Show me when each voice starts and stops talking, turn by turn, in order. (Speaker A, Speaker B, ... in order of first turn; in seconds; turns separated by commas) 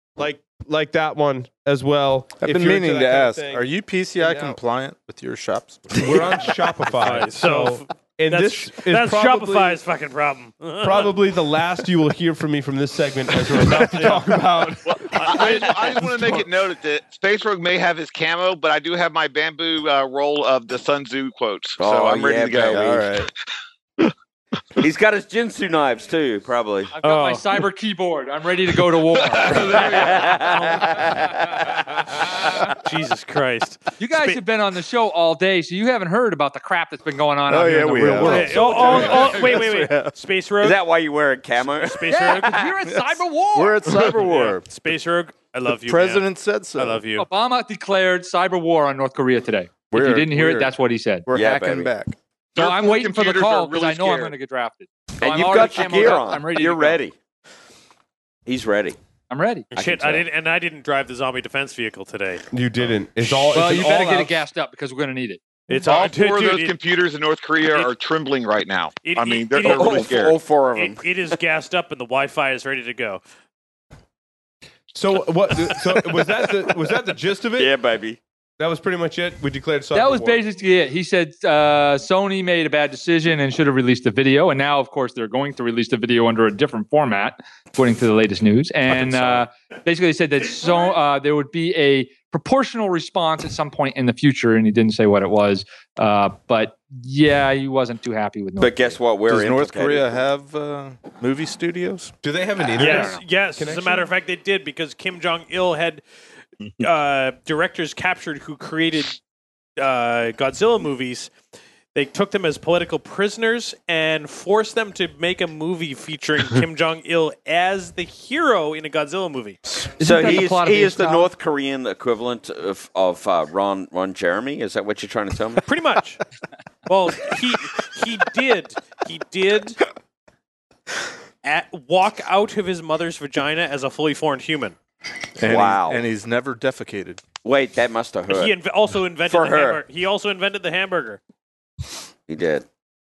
Speaker A: 0.2-3.7, Speaker B: 2.4-6.3, Speaker A: 4.2-4.6, Speaker A: 5.9-9.8, Speaker C: 6.9-11.2, Speaker A: 10.8-15.7, Speaker D: 14.8-23.0, Speaker E: 21.8-23.1, Speaker B: 22.7-23.3, Speaker E: 24.8-26.9, Speaker F: 26.9-29.9, Speaker C: 27.0-27.6, Speaker D: 29.3-30.2, Speaker E: 29.8-31.7, Speaker C: 30.4-30.8, Speaker C: 32.8-34.4, Speaker F: 34.0-39.7, Speaker B: 37.5-40.1, Speaker C: 38.2-40.8, Speaker E: 40.6-42.7, Speaker C: 41.6-42.6, Speaker F: 42.1-43.9, Speaker B: 42.8-44.7, Speaker C: 44.0-47.3, Speaker B: 45.6-47.0, Speaker F: 47.1-51.3, Speaker B: 49.9-50.7, Speaker B: 51.2-52.2, Speaker E: 51.3-51.9, Speaker D: 52.5-54.3, Speaker F: 52.5-57.0, Speaker E: 55.2-57.1, Speaker E: 58.5-59.0, Speaker F: 59.3-59.7, Speaker E: 59.7-60.3, Speaker C: 59.7-62.5, Speaker A: 62.5-64.4, Speaker F: 63.5-65.4, Speaker C: 65.7-66.8, Speaker D: 65.7-70.4, Speaker C: 69.0-73.2, Speaker E: 69.6-71.4, Speaker A: 74.9-77.7, Speaker E: 77.5-78.2, Speaker A: 78.6-80.4, Speaker F: 79.9-98.9, Speaker E: 88.9-89.4, Speaker E: 98.6-100.2, Speaker B: 99.3-102.1, Speaker A: 102.2-104.1, Speaker F: 102.7-103.2, Speaker C: 102.7-106.0, Speaker C: 106.7-109.2, Speaker C: 109.8-111.3, Speaker C: 111.9-119.9, Speaker F: 120.0-121.3, Speaker E: 120.0-125.6, Speaker C: 125.6-126.2, Speaker C: 126.8-129.8, Speaker C: 131.4-134.8, Speaker B: 135.4-137.2, Speaker E: 135.4-136.0, Speaker E: 137.4-138.5, Speaker C: 138.3-141.2, Speaker E: 139.3-139.8, Speaker E: 142.3-142.7